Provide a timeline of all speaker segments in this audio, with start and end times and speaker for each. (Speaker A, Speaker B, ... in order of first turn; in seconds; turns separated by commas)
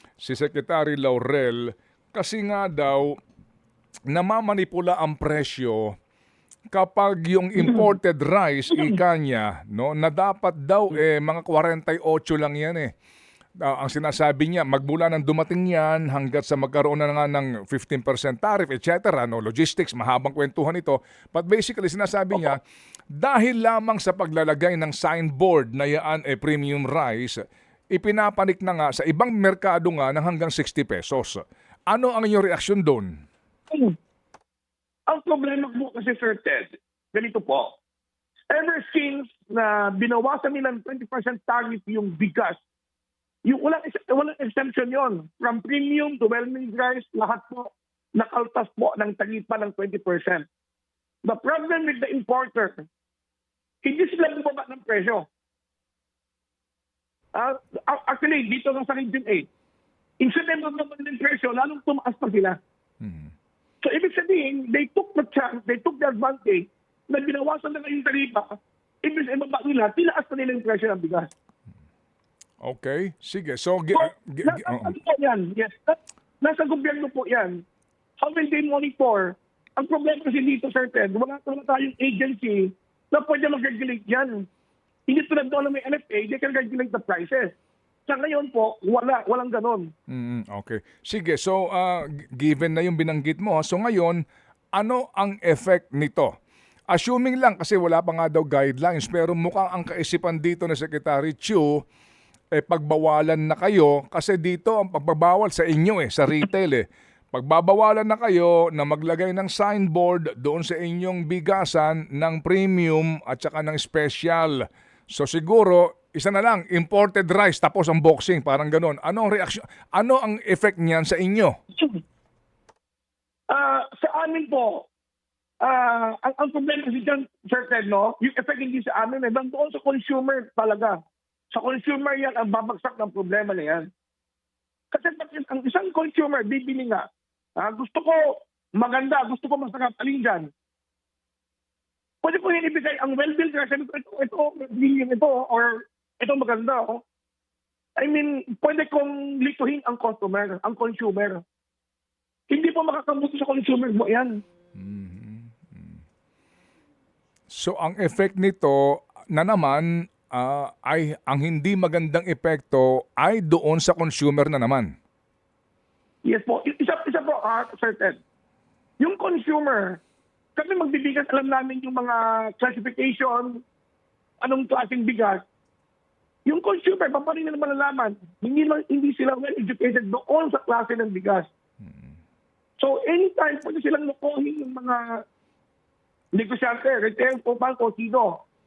Speaker A: 0.2-3.1, Speaker A: 4.1-5.9, Speaker A: 6.7-12.9, Speaker A: 13.6-22.6, Speaker A: 23.1-27.4, Speaker A: 27.9-33.1, Speaker B: 33.7-34.0, Speaker B: 35.1-37.8, Speaker B: 38.5-42.6, Speaker B: 43.4-50.5, Speaker B: 51.2-52.9, Speaker B: 53.8-55.3, Speaker B: 57.3-59.5, Speaker B: 60.2-62.6, Speaker A: 63.0-63.3, Speaker B: 63.8-68.5, Speaker B: 69.0-71.3, Speaker A: 72.6-74.9, Speaker B: 73.9-77.6, Speaker B: 78.2-84.5, Speaker B: 85.1-87.5, Speaker B: 88.1-89.9, Speaker A: 90.1-94.2, Speaker A: 94.8-96.3, Speaker A: 96.9-101.8, Speaker A: 102.5-121.5, Speaker B: 123.5-124.9, Speaker B: 125.6-131.0, Speaker B: 131.5-133.9, Speaker B: 134.9-137.1, Speaker B: 137.6-140.5, Speaker B: 142.2-147.0, Speaker B: 148.0-151.4, Speaker B: 152.5-154.4, Speaker A: 154.8-155.8, Speaker A: 157.5-164.9, Speaker B: 166.2-168.2, Speaker B: 169.0-170.0, Speaker B: 170.6-173.6, Speaker B: 174.4-175.4, Speaker B: 176.4-181.5, Speaker B: 182.8-185.2, Speaker B: 186.3-188.4